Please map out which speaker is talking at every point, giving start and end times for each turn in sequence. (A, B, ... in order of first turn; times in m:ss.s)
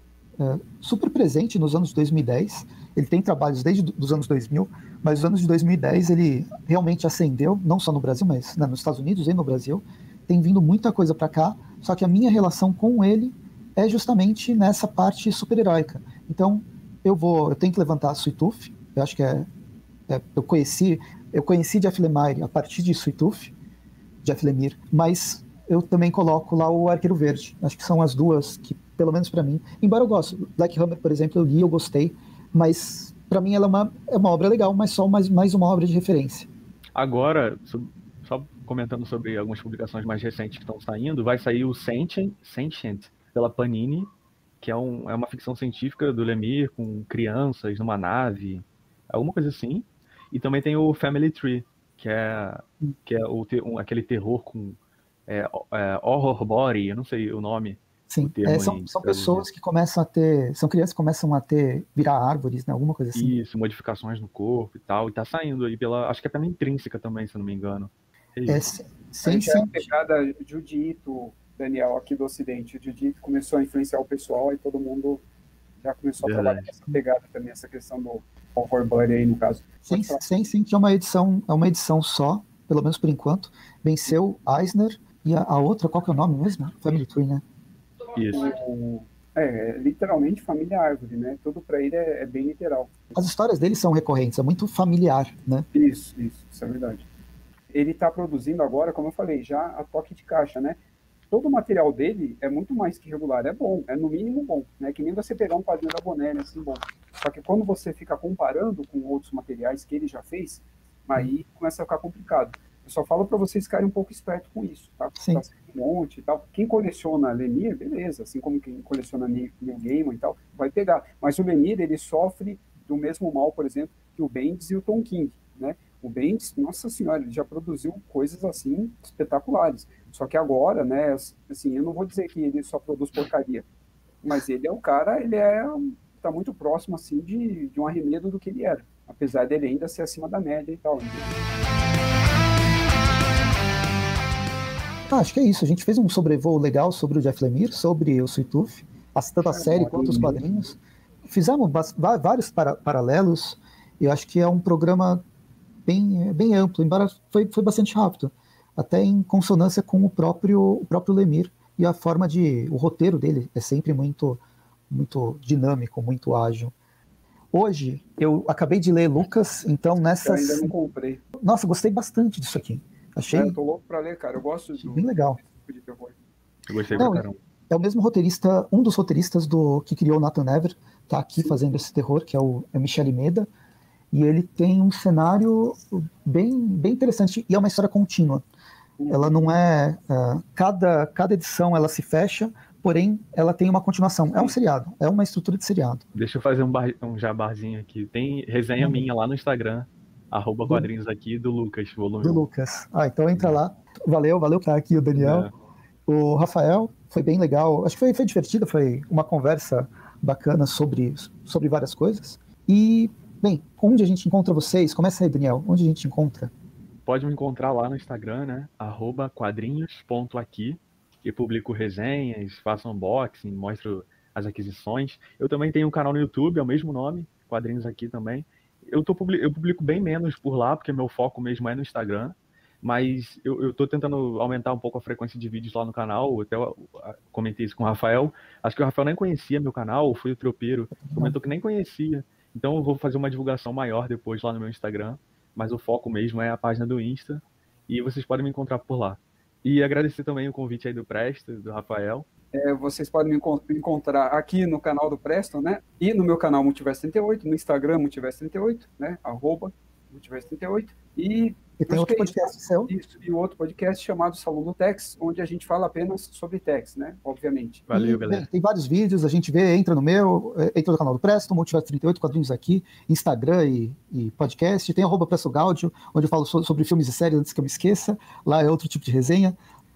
0:00.4-0:19.5 A
0:20.1-0:23.5 A
0:24.2-0:36.5 A
0:36.9-0:59.5 B
0:58.1-1:03.3 A
1:03.1-1:08.7 B
1:08.5-1:09.8 A
1:09.2-1:15.2 C
1:15.8-1:20.2 C
1:16.2-1:16.7 B
1:19.8-1:27.4 A
1:28.1-1:28.5 B
1:28.3-1:32.9 C
1:33.1-1:35.6 A
1:35.7-1:37.0 C
1:37.7-1:40.8 C
1:41.3-2:13.6 C
1:55.2-1:55.4 A
2:14.2-2:21.4 C
2:25.1-2:35.2 A
2:29.5-2:30.4 C
2:35.8-2:46.7 A
2:47.5-2:50.7 A
2:50.2-2:51.2 C
2:51.4-2:53.6 A
2:53.3-2:56.2 C
2:54.8-2:55.4 A
2:56.7-2:57.4 B
2:56.9-2:57.1 C
2:57.0-3:03.5 A
3:04.1-3:08.4 A
3:09.0-3:09.5 C
3:09.1-3:16.0 A
3:16.1-3:22.4 B
3:18.8-3:19.1 A
3:22.2-3:25.5 A
3:25.2-3:25.5 B
3:26.1-3:36.5 A
3:37.0-4:12.3 B
4:01.1-4:01.3 A
4:12.5-4:27.9 C
4:21.8-4:22.9 A
4:27.9-4:28.5 B
4:27.9-4:39.6 A